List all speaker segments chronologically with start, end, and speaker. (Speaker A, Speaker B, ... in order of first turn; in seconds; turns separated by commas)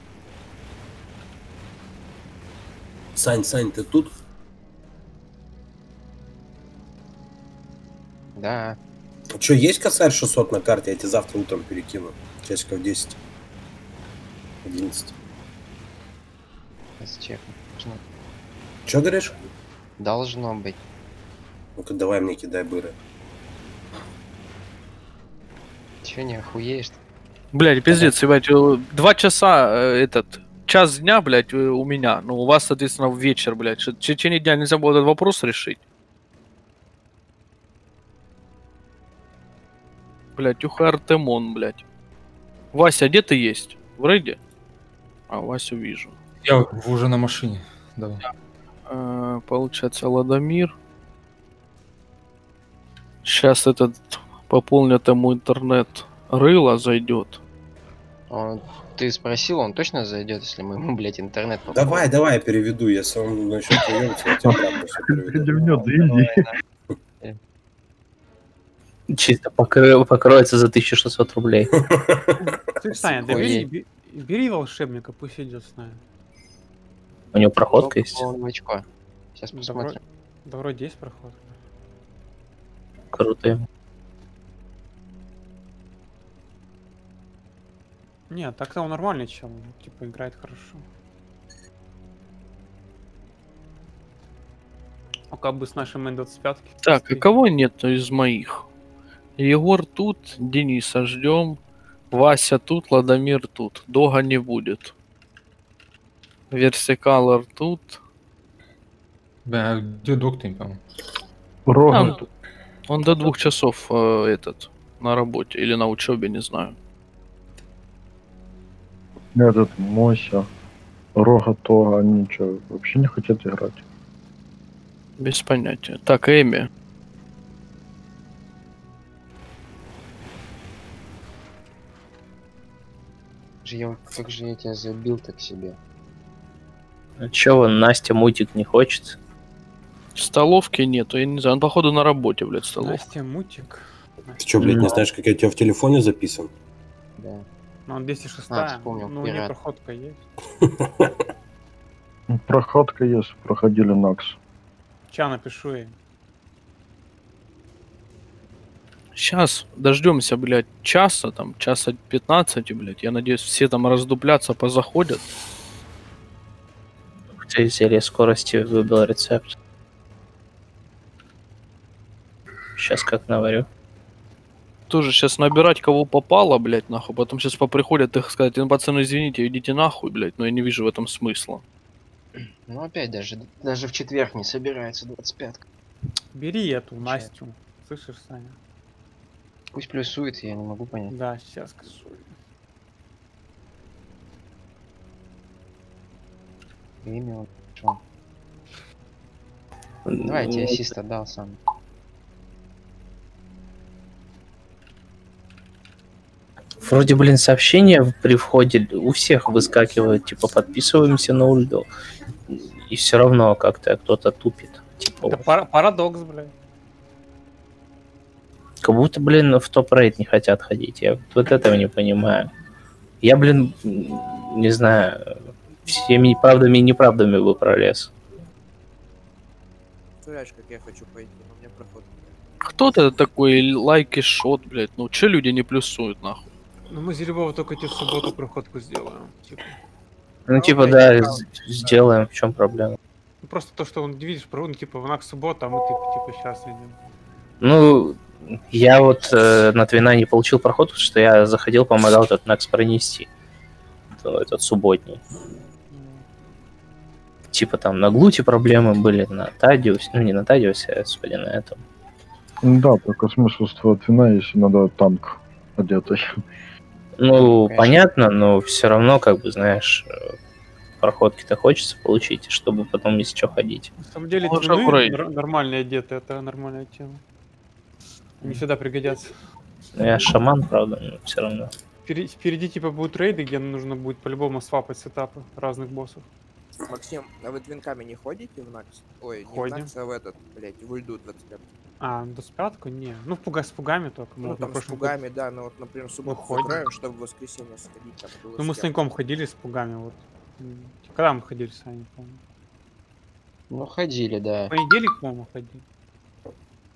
Speaker A: 3.1-4.1, Speaker B: 8.4-8.8, Speaker A: 9.3-13.2, Speaker A: 14.6-15.1, Speaker B: 17.0-18.0, Speaker A: 18.9-19.3, Speaker B: 20.0-20.8, Speaker A: 21.8-23.0, Speaker B: 26.0-27.0, Speaker C: 27.5-35.8, Speaker C: 40.4-41.8, Speaker C: 42.7-44.4, Speaker C: 45.3-46.1, Speaker D: 46.4-48.2, Speaker C: 48.9-50.7, Speaker C: 53.2-57.4, Speaker B: 58.3-62.0, Speaker A: 61.7-65.6, Speaker E: 64.4-66.5, Speaker B: 65.5-66.6, Speaker F: 69.1-71.7, Speaker A: 71.7-72.4, Speaker G: 72.4-76.0, Speaker B: 73.3-73.7, Speaker F: 77.3-78.2, Speaker B: 77.7-78.8, Speaker B: 79.4-80.0, Speaker G: 79.5-81.6, Speaker F: 83.1-83.7, Speaker G: 88.3-90.8, Speaker G: 95.3-97.2, Speaker C: 96.8-98.7, Speaker C: 99.4-101.6, Speaker C: 102.1-104.9, Speaker C: 106.5-108.0, Speaker D: 109.5-110.8, Speaker E: 111.7-112.2, Speaker C: 111.9-112.2, Speaker C: 112.9-116.8, Speaker E: 119.3-120.5, Speaker E: 121.2-123.8, Speaker C: 125.2-126.7, Speaker B: 133.6-135.8, Speaker F: 137.2-139.2, Speaker C: 140.2-143.0, Speaker G: 142.8-145.0, Speaker A: 144.4-146.5, Speaker F: 144.6-144.9, Speaker B: 147.2-147.4, Speaker G: 147.9-150.2, Speaker B: 148.5-149.5, Speaker A: 150.6-151.1, Speaker E: 152.3-154.4, Speaker G: 155.1-155.9, Speaker C: 159.2-165.2, Speaker F: 167.4-169.6, Speaker F: 172.8-173.7, Speaker C: 174.9-181.6, Speaker B: 182.7-185.6, Speaker G: 186.3-188.6, Speaker B: 187.0-187.3, Speaker B: 189.7-191.1, Speaker G: 191.1-192.3, Speaker B: 197.0-198.0, Speaker F: 200.1-200.8, Speaker B: 200.2-201.6, Speaker F: 206.8-211.9, Speaker F: 212.5-215.5, Speaker G: 215.3-216.5, Speaker F: 218.8-222.5, Speaker F: 223.2-228.1, Speaker H: 230.2-232.3, Speaker C: 232.6-236.5, Speaker G: 236.9-239.7, Speaker F: 240.5-243.0, Speaker H: 240.5-242.0, Speaker G: 243.4-247.0, Speaker F: 247.6-253.3, Speaker F: 254.1-255.2, Speaker G: 255.9-256.2, Speaker F: 257.5-261.8, Speaker E: 262.6-266.4, Speaker F: 267.2-270.3, Speaker B: 267.3-268.0, Speaker F: 271.0-273.9, Speaker G: 274.0-277.2, Speaker C: 274.4-275.2, Speaker G: 278.4-279.3, Speaker F: 279.9-281.7, Speaker G: 282.1-286.2, Speaker H: 286.9-291.7, Speaker G: 289.4-289.9, Speaker G: 292.0-295.1, Speaker H: 294.4-298.9, Speaker G: 296.2-296.9, Speaker G: 298.6-302.4, Speaker B: 303.7-304.7, Speaker G: 304.7-305.8